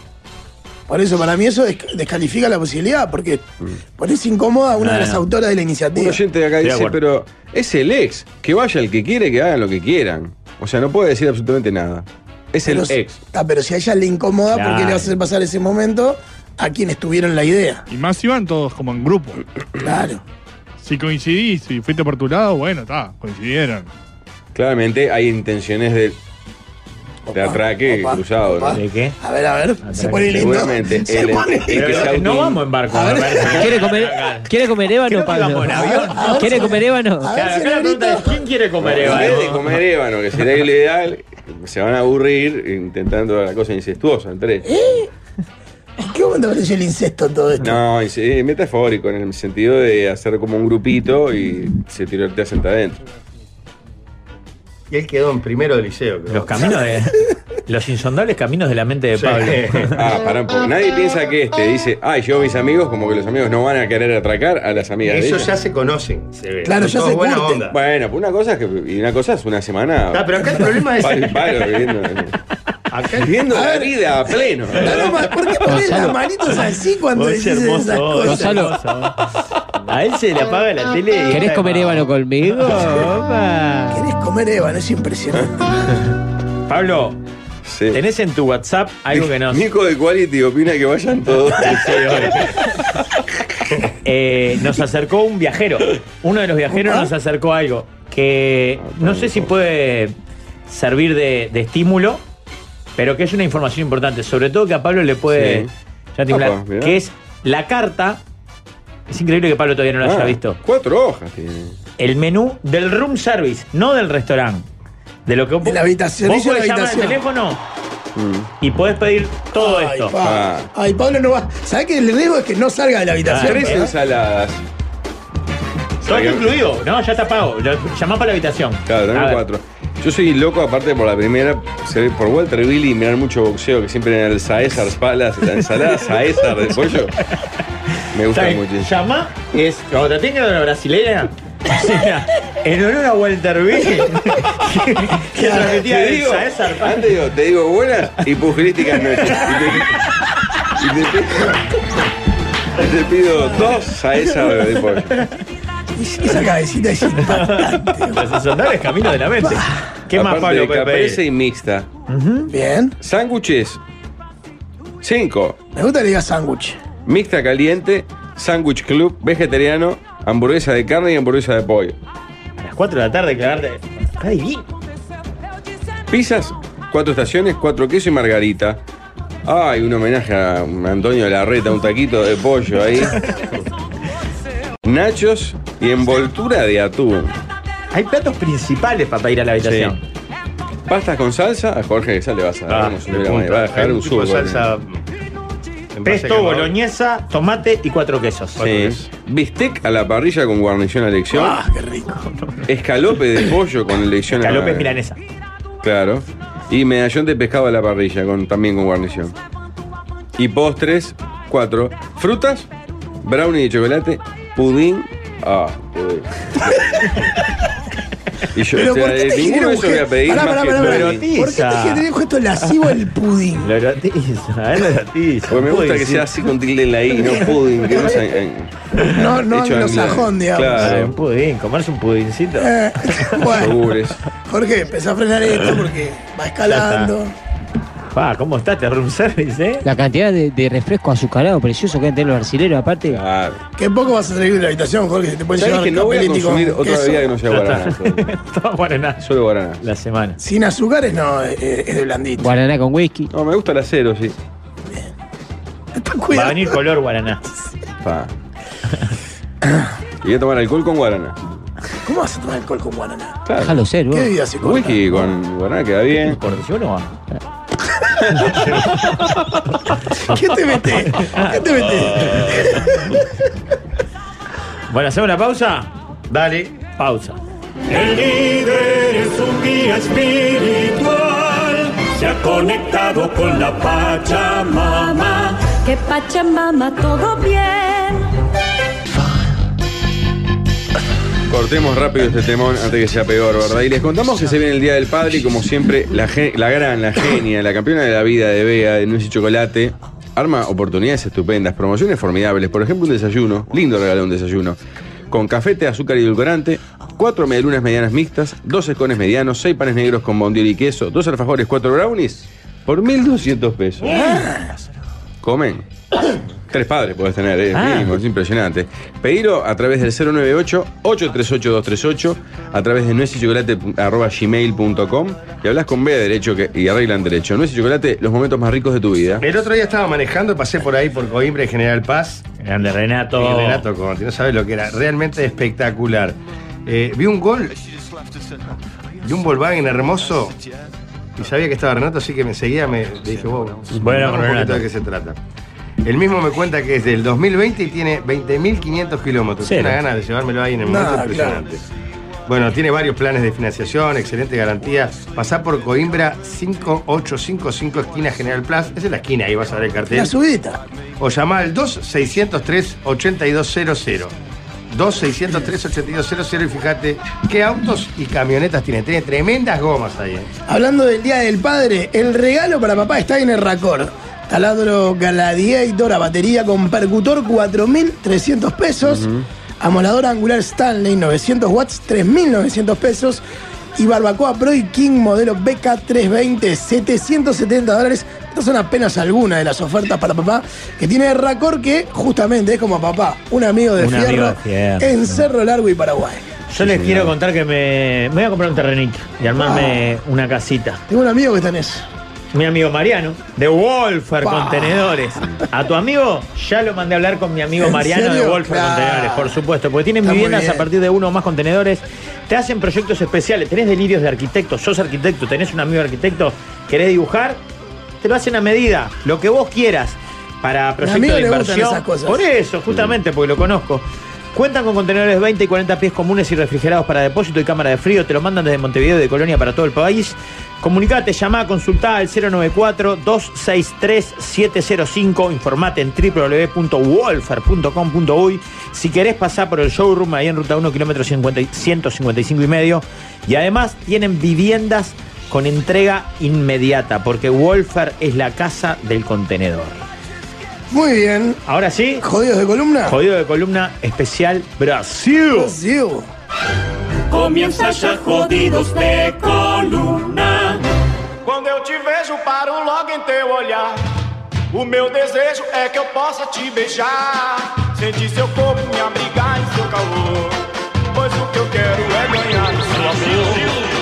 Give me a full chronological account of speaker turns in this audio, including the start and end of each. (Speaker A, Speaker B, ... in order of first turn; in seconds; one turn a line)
Speaker A: 0.9-3.5
Speaker A: 4.0-6.2
Speaker B: 4.8-5.2
Speaker C: 5.9-13.2
Speaker B: 6.6-7.0
Speaker A: 12.6-17.9
Speaker B: 14.5-15.1
Speaker D: 17.9-19.4
Speaker A: 19.8-20.2
Speaker D: 20.8-23.9
Speaker C: 24.5-26.2
Speaker A: 27.3-32.1
Speaker C: 27.3-28.8
Speaker B: 28.7-29.2
Speaker B: 29.8-30.6
Speaker C: 30.0-32.6
Speaker B: 31.7-36.8
Speaker A: 32.9-33.8
Speaker E: 33.5-37.3
Speaker A: 35.7-38.4
Speaker B: 37.3-39.7
Speaker C: 38.8-44.7
Speaker A: 44.7-45.1
Speaker A: 46.0-47.8
Speaker C: 47.6-53.0
Speaker F: 54.9-56.7
Speaker B: 56.3-60.0
Speaker F: 59.1-60.0
Speaker C: 59.9-65.5
Speaker F: 65.0-67.7
Speaker A: 66.6-67.6
Speaker C: 67.7-72.3
Speaker F: 70.1-71.6
Speaker F: 72.9-73.4
Speaker C: 73.1-75.2
Speaker A: 73.5-73.9
Speaker A: 74.7-78.7
Speaker E: 75.6-76.2
Speaker B: 77.1-79.2
Speaker E: 78.2-78.7
Speaker B: 79.9-83.0
Speaker E: 81.3-84.0
Speaker A: 83.9-85.6
Speaker B: 86.7-87.2
Speaker C: 87.6-88.0
Speaker B: 87.9-89.7
Speaker C: 89.1-92.5
Speaker B: 91.6-92.6
Speaker B: 94.0-100.1
Speaker A: 96.7-97.1
Speaker C: 98.8-99.5
Speaker B: 100.7-102.2
Speaker B: 103.0-108.2
Speaker C: 105.3-105.7
Speaker C: 106.3-107.0
Speaker B: 109.1-110.6
Speaker C: 110.0-111.8
Speaker B: 112.0-114.7
Speaker B: 115.2-117.6
Speaker A: 115.6-117.2
Speaker C: 118.2-118.5
Speaker B: 118.6-120.1
Speaker A: 119.6-123.9
Speaker C: 120.2-120.7
Speaker B: 123.2-123.8
Speaker C: 123.3-124.6
Speaker B: 126.0-129.4
Speaker C: 126.0-126.6
Speaker C: 128.8-137.2
Speaker C: 138.1-138.9
Speaker B: 138.3-147.1
Speaker C: 145.4-150.0
Speaker C: 150.7-151.6
Speaker C: 152.7-155.2
Speaker A: 155.9-158.2
Speaker B: 157.2-161.2
Speaker A: 159.4-159.8
Speaker C: 160.1-161.9
Speaker B: 162.1-162.5
Speaker A: 162.5-162.9
Speaker C: 163.0-163.8
Speaker C: 165.0-165.6
Speaker A: 165.7-166.8
Speaker C: 167.1-172.0
Speaker B: 172.6-174.7
Speaker C: 176.1-178.8
Speaker C: 179.4-183.4
Speaker C: 184.8-187.3
Speaker B: 187.9-190.0
Speaker C: 189.6-189.9
Speaker C: 190.9-194.7
Speaker F: 192.7-195.0
Speaker F: 195.9-196.7
Speaker B: 196.0-198.9
Speaker C: 198.6-201.6
Speaker A: 201.3-202.2
Speaker C: 202.7-205.0
Speaker B: 204.4-205.2
Speaker C: 205.8-209.3
Speaker C: 210.3-212.7
Speaker C: 213.2-217.1
Speaker C: 218.5-221.2
Speaker A: 218.7-223.7
Speaker B: 220.7-222.1
Speaker B: 223.6-226.3
Speaker C: 225.5-228.9
Speaker A: 229.0-230.9
Speaker C: 229.4-231.1
Speaker B: 230.8-233.4
Speaker A: 232.6-233.8
Speaker C: 233.5-234.2
Speaker A: 234.4-237.3
Speaker F: 236.7-237.1
Speaker B: 238.1-239.9
Speaker E: 239.8-243.2
Speaker C: 243.1-243.6
Speaker A: 243.8-247.3
Speaker C: 245.6-248.3
Speaker B: 247.5-249.2
Speaker C: 249.2-249.8
Speaker B: 249.8-250.4
Speaker A: 250.4-252.5
Speaker E: 252.4-253.3
Speaker C: 253.3-254.3
Speaker A: 255.9-256.8
Speaker B: 256.3-257.4
Speaker C: 258.0-258.3
Speaker C: 260.2-261.4
Speaker A: 262.0-263.4
Speaker C: 263.4-263.8
Speaker E: 263.6-264.3
Speaker A: 264.1-265.3
Speaker C: 264.6-266.4
Speaker B: 266.3-267.1
Speaker A: 270.2-273.3
Speaker B: 274.9-275.9
Speaker F: 276.3-276.7
Speaker B: 277.0-277.4
Speaker G: 277.9-285.7
Speaker H: 285.7-288.3
Speaker C: 291.5-304.8
Speaker C: 305.3-314.2
Speaker B: 314.1-314.4
Speaker A: 314.1-314.7
Speaker C: 315.4-315.9
Speaker C: 316.7-329.4
Speaker B: 317.7-318.1
Speaker F: 329.4-332.4
Speaker B: 332.6-333.9
Speaker F: 333.4-337.8
Speaker F: 339.2-340.6
Speaker F: 341.4-345.4
Speaker B: 343.9-344.8
Speaker F: 346.0-351.8
Speaker B: 349.6-350.0
Speaker A: 350.8-351.6
Speaker F: 352.4-360.3
Speaker A: 360.1-360.8
Speaker F: 361.2-364.3
Speaker F: 364.9-370.5
Speaker A: 370.7-379.3
Speaker C: 379.0-379.4
Speaker A: 379.8-383.4
Speaker A: 383.9-396.5
Speaker B: 394.0-395.5
Speaker B: 396.7-401.0
Speaker C: 396.7-397.3
Speaker A: 399.6-400.1
Speaker A: 401.1-402.1
Speaker B: 402.5-417.6
Speaker A: 404.4-405.1
Speaker A: 407.8-409.6
Speaker A: 410.2-410.9
Speaker B: 418.2-450.0
Speaker A: 421.0-422.4
Speaker A: 450.9-451.6
Speaker B: 451.6-452.3
Speaker A: 452.2-453.2
Speaker B: 453.1-455.8
Speaker A: 455.5-456.3
Speaker G: 457.3-460.8
Speaker I: 461.5-464.0
Speaker I: 464.7-470.6
Speaker I: 471.1-473.7